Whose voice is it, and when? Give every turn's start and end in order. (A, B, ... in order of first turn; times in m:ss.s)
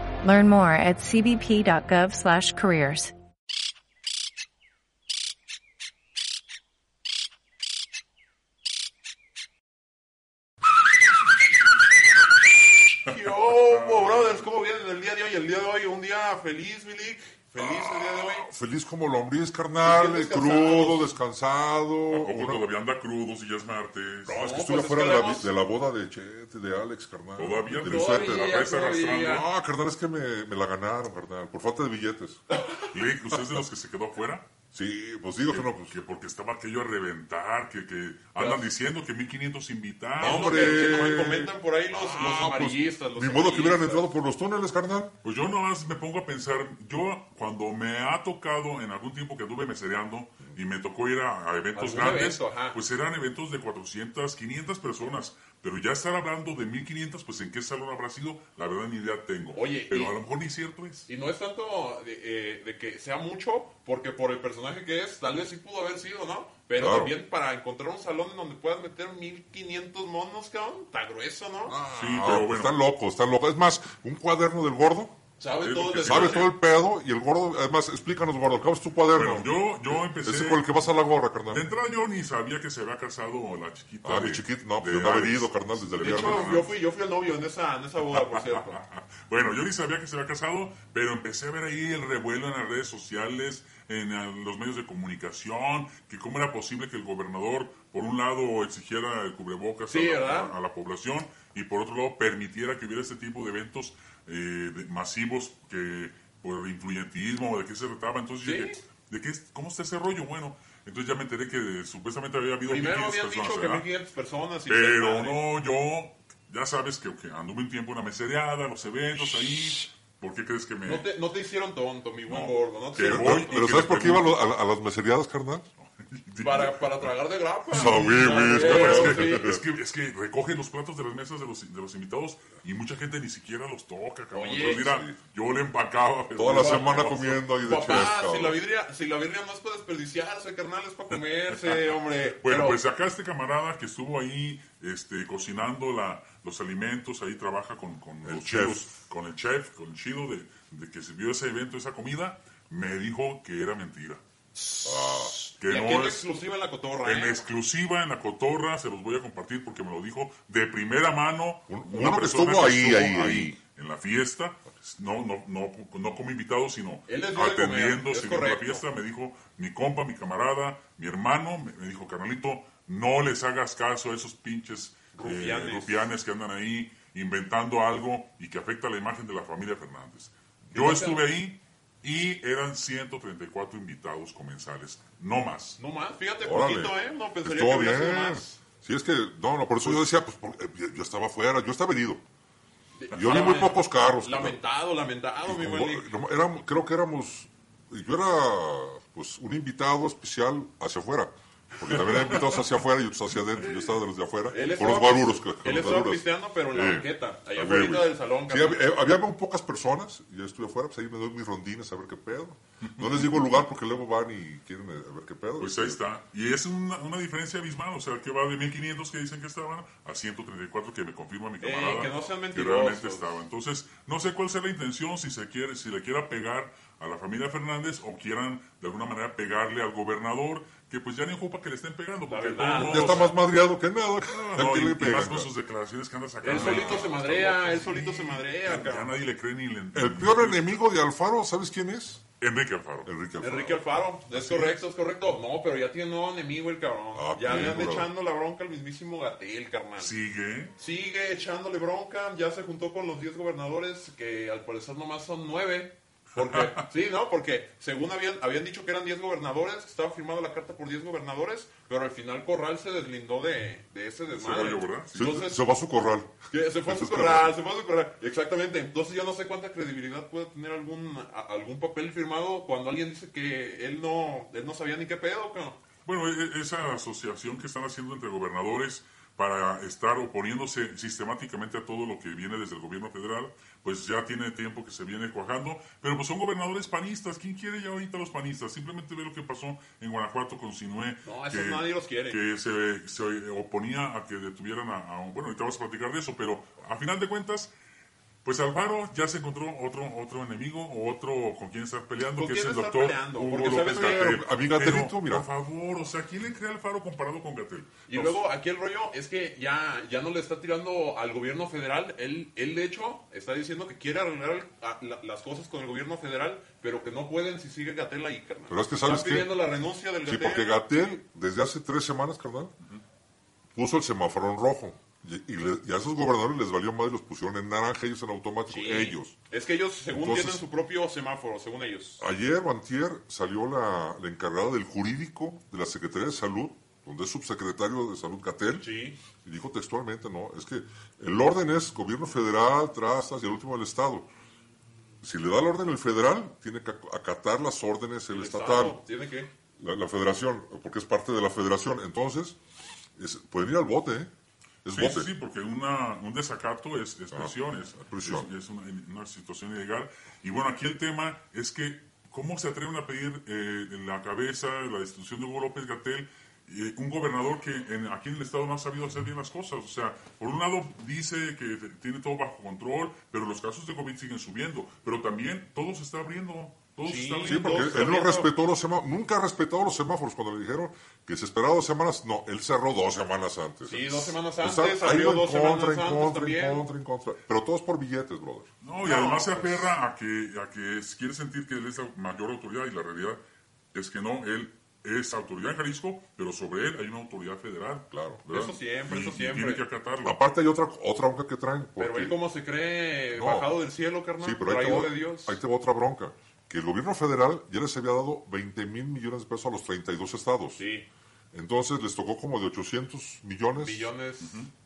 0:00.2-0:03.1 A
0:13.1-0:18.5 B
0:13.7-0:14.3 C
0:17.6-0:22.7 D
0:19.8-0:21.1 B
0:22.1-0:24.4 C
0:24.3-0:32.4 D
0:24.3-0:25.5 B
0:27.4-0:29.5 C
0:27.8-0:29.4 B
0:32.8-0:34.5 C
0:34.7-0:36.0 D
0:35.5-0:41.1 C
0:38.4-0:38.7 B
0:40.2-0:45.1 D
0:40.2-0:44.1 B
0:45.2-1:01.1 C
0:51.7-0:52.8 B
0:59.5-1:00.2 B
1:01.1-1:11.8 B
1:06.8-1:07.2 D
1:11.7-1:15.2 D
1:11.9-1:12.8 C
1:15.4-1:16.5 B
1:15.6-1:16.5 C
1:16.0-1:21.7 D
1:19.1-1:20.8 C
1:21.5-1:26.8 C
1:24.0-1:26.6 D
1:26.0-1:28.8 B
1:28.1-1:53.9 C
1:39.9-1:40.5 B
1:48.4-1:48.8 B
1:52.7-1:55.4 B
1:54.7-2:01.1 C
2:00.8-2:03.6 B
2:02.3-2:04.4 C
2:03.0-2:05.7 D
2:05.8-2:07.1 C
2:06.4-2:09.6 B
2:07.7-2:09.6 D
2:07.7-2:17.5 C
2:14.3-2:15.0 B
2:14.6-2:15.2 D
2:16.4-2:18.6 D
2:16.5-2:22.8 B
2:21.7-2:34.2 C
2:28.2-2:28.9 D
2:34.6-2:37.4 B
2:34.8-2:35.4 D
2:35.6-2:36.3 C
2:37.0-3:05.8 C
2:41.7-2:43.6 D
2:47.1-2:48.9 B
2:55.2-2:56.1 B
3:00.7-3:01.3 B
3:05.8-3:08.6 B
3:06.4-3:12.2 D
3:13.0-3:16.1 B
3:13.1-3:14.6 D
3:15.4-3:36.0 D
3:24.5-3:28.9 B
3:33.0-3:33.3 C
3:35.6-3:53.4 C
3:41.6-3:43.4 B
3:52.2-3:53.4 B
3:52.7-3:55.5 D
3:54.3-4:00.8 C
3:56.4-3:59.1 B
3:56.5-3:57.1 D
3:59.9-4:02.2 D
4:02.4-4:03.1 C
4:03.0-4:04.1 D
4:03.4-4:10.2 B
4:04.3-4:04.8 C
4:07.1-4:08.1 D
4:10.0-4:10.8 C
4:10.8-4:25.6 B
4:16.4-4:16.8 C
4:24.3-4:25.3 C
4:25.1-4:27.6 D
4:26.5-4:35.8 B
4:36.0-4:57.7 C
4:51.2-4:52.4 B
4:58.4-5:08.4 C
5:02.4-5:04.5 B
5:03.4-5:05.5 D
5:08.1-5:20.9 B
5:18.7-5:19.6 D
5:20.2-5:22.7 D
5:23.8-5:29.4 D
5:28.7-5:32.2 B
5:30.1-5:30.6 D
5:32.2-5:44.3 D
5:38.8-5:39.2 B
5:45.2-5:49.0 D
5:48.3-5:49.5 B
5:49.8-5:52.6 D
5:53.2-5:54.3 D
5:54.8-5:55.3 D
5:54.9-6:17.8 C
5:57.3-5:58.5 D
6:17.0-6:18.5 B
6:17.5-6:28.7 D
6:23.8-6:26.9 B
6:28.8-6:33.4 C
6:29.0-6:29.9 B
6:33.9-6:40.4 C
6:38.1-6:38.4 D
6:38.5-6:39.9 B
6:40.2-6:42.4 D
6:42.0-6:45.6 B
6:43.3-6:43.8 D
6:44.4-6:50.8 D
6:50.8-6:51.1 B
6:51.5-6:54.1 D
6:53.7-6:54.7 B
6:54.4-6:54.7 C